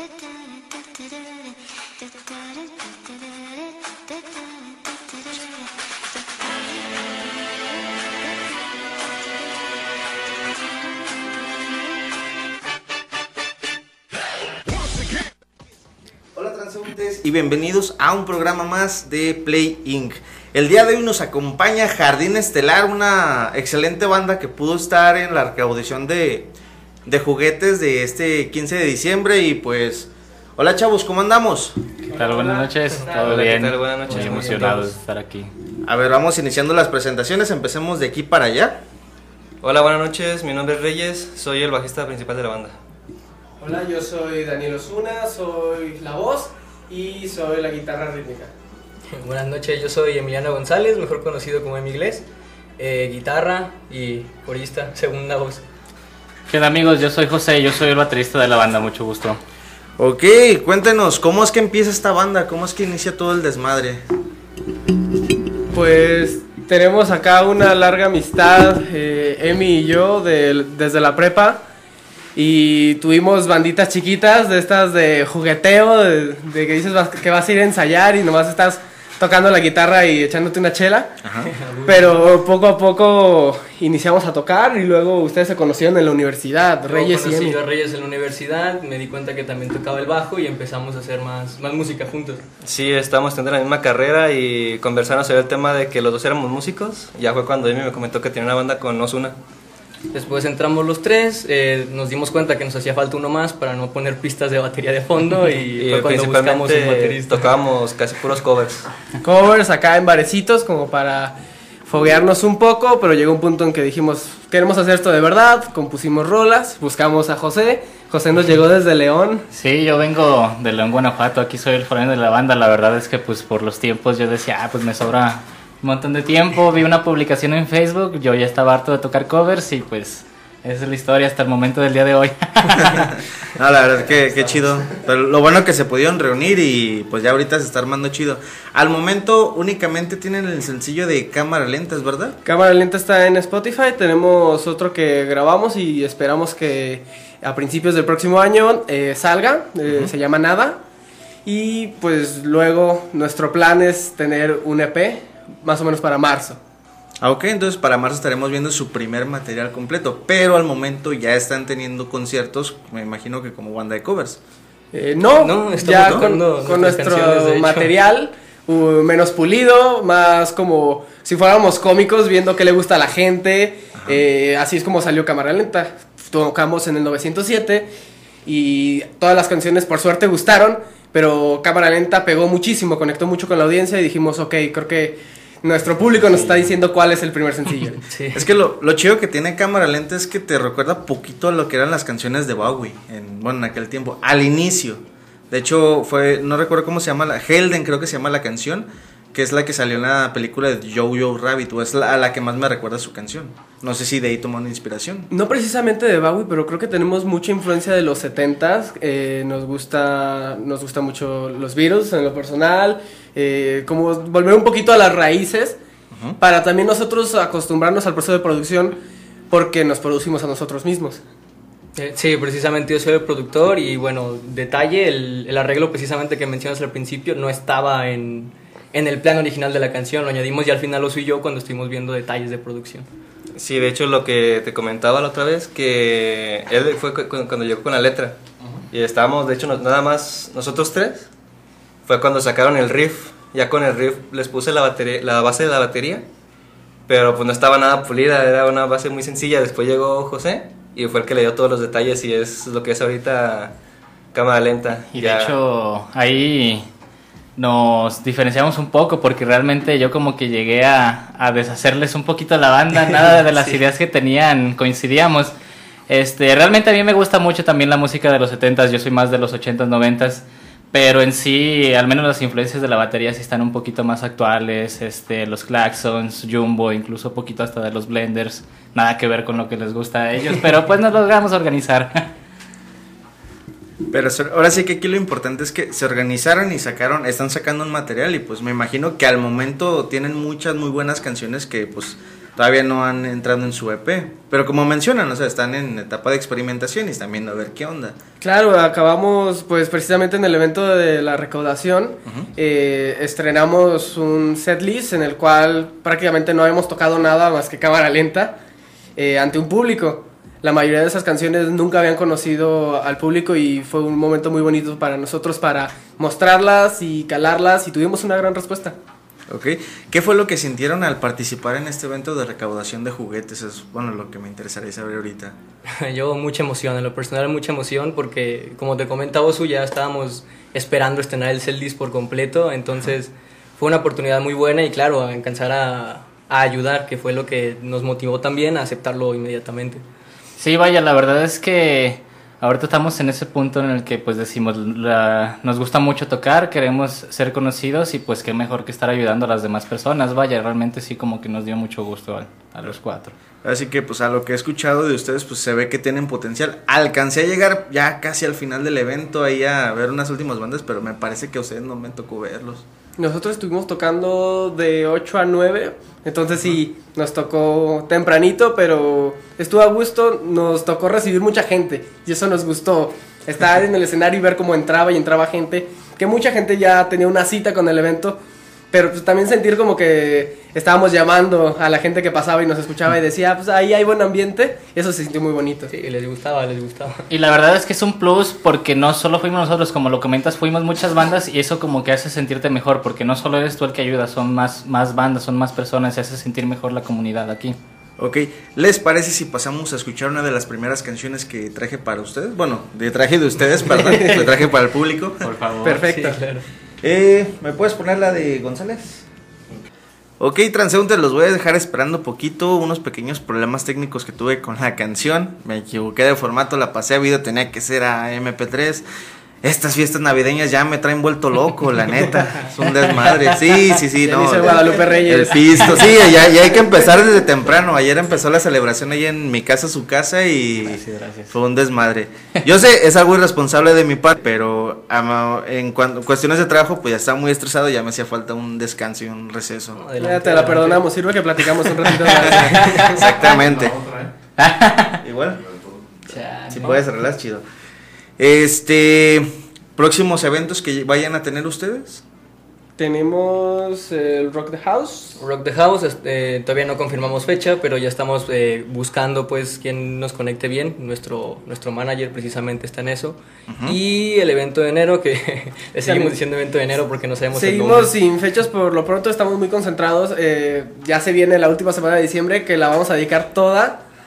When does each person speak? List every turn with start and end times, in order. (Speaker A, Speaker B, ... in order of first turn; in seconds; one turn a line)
Speaker A: 16.3-26.5
Speaker A: 27.1-31.8
Speaker B: 32.1-33.4
Speaker C: 32.1-35.5
Speaker D: 33.1-35.0
Speaker A: 35.8-38.8
Speaker D: 39.6-42.8
Speaker B: 43.6-48.5
Speaker E: 49.1-52.2
Speaker E: 52.8-55.6
Speaker C: 56.5-59.4
Speaker A: 60.0-64.0
Speaker B: 65.7-71.6
Speaker B: 72.3-81.2
Speaker A: 81.2-81.5
Speaker E: 81.5-82.1
Speaker B: 81.8-87.6
Speaker E: 86.8-92.4
Speaker D: 92.6-99.3
Speaker E: 100.1-107.4
Speaker D: 105.8-108.9
Speaker B: 109.2-119.5
Speaker C: 119.5-133.2
Speaker A: 132.8-142.4
Speaker B: 142.4-150.8
Speaker B: 151.4-156.6
Speaker A: 157.2-164.4
Speaker B: 164.9-177.9
Speaker E: 165.4-167.9
Speaker B: 178.4-188.0
Speaker E: 188.1-188.4
Speaker A: 188.3-205.3
Speaker B: 205.3-215.8
Speaker B: 216.4-219.0
Speaker B: 219.5-221.2
Speaker E: 221.9-233.1
Speaker D: 233.6-238.4
Speaker D: 238.9-241.3
Speaker D: 242.1-246.2
Speaker D: 247.1-253.7
Speaker D: 254.3-255.5
Speaker C: 255.1-256.9
Speaker C: 257.6-265.5
Speaker C: 266.1-282.3
Speaker A: 284.1-298.2
Speaker B: 298.4-308.6
Speaker B: 309.1-319.0
Speaker A: 319.5-325.6
Speaker E: 325.9-340.0
Speaker C: 340.6-353.3
Speaker A: 353.6-362.8
Speaker B: 363.2-378.4
Speaker B: 378.9-385.9
Speaker E: 385.9-387.2
Speaker C: 387.3-397.8
Speaker A: 398.2-405.5
Speaker B: 404.0-404.4
Speaker C: 405.4-406.0
Speaker B: 405.8-406.4
Speaker E: 406.0-406.6
Speaker A: 407.0-409.2
Speaker A: 410.4-419.1
Speaker A: 419.6-440.0
Speaker B: 424.2-426.0
Speaker C: 430.9-431.5
Speaker E: 440.0-441.1
Speaker B: 440.2-443.1
Speaker A: 442.6-444.0
Speaker C: 442.9-445.2
Speaker A: 445.2-446.0
Speaker C: 446.3-447.0
Speaker A: 446.7-447.6
Speaker A: 448.4-452.2
Speaker B: 453.0-455.4
Speaker E: 455.4-468.1
Speaker A: 463.7-464.0
Speaker B: 466.0-466.4
Speaker B: 467.5-474.0